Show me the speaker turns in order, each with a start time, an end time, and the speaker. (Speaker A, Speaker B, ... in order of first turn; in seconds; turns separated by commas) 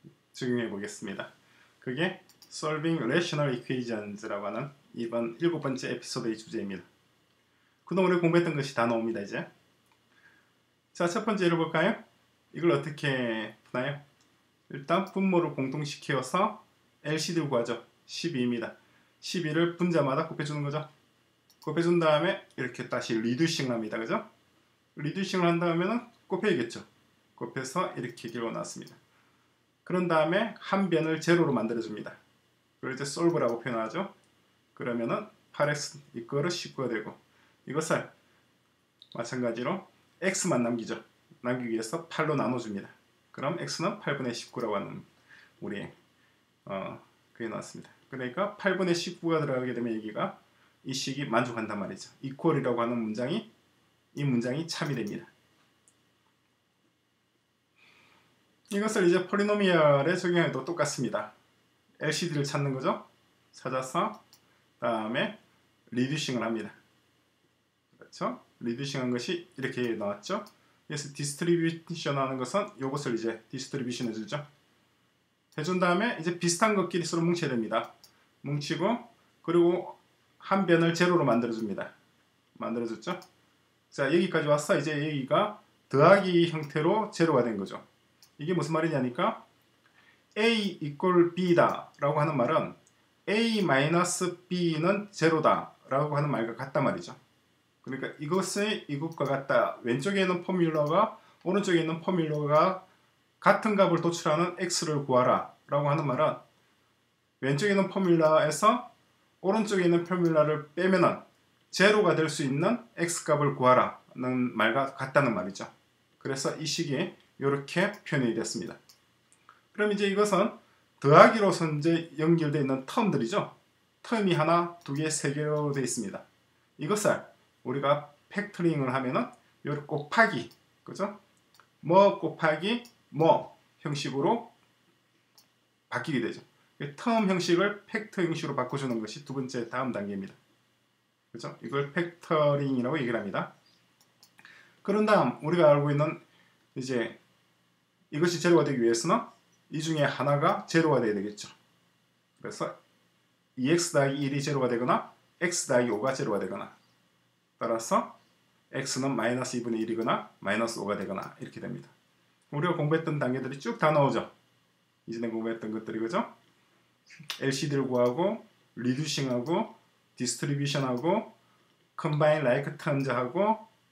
Speaker A: 0.3-6.9, Speaker A: 7.8-9.4, Speaker A: 10.9-12.0, Speaker A: 12.5-14.0, Speaker A: 14.7-20.9, Speaker A: 21.6-24.2, Speaker A: 24.9-26.9, Speaker A: 27.4-29.0, Speaker A: 29.8-32.2, Speaker A: 32.8-34.1, Speaker A: 34.7-38.1, Speaker A: 39.1-45.0, Speaker A: 45.6-45.9, Speaker A: 46.6-53.5, Speaker A: 54.1-55.3, Speaker A: 58.7-61.3, Speaker A: 62.0-64.2, Speaker A: 64.8-65.4, Speaker A: 65.9-66.8, Speaker A: 68.0-74.4, Speaker A: 75.5-77.9, Speaker A: 78.4-81.9, Speaker A: 82.5-83.2, Speaker A: 83.9-87.8, Speaker A: 88.4-89.4, Speaker A: 90.3-97.2, Speaker A: 97.8-102.8, Speaker A: 103.4-106.4, Speaker A: 107.4-108.9, Speaker A: 109.4-118.8, Speaker A: 119.7-126.2, Speaker A: 126.8-131.1, Speaker A: 131.8-134.5, Speaker A: 135.9-140.4, Speaker A: 141.3-143.5, Speaker A: 144.8-146.2, Speaker A: 146.7-147.2, Speaker A: 148.1-151.5, Speaker A: 152.4-152.7, Speaker A: 153.6-156.8, Speaker A: 157.6-158.1, Speaker A: 158.7-161.9, Speaker A: 162.5-164.3, Speaker A: 165.1-166.3, Speaker A: 167.4-171.3, Speaker A: 171.9-173.6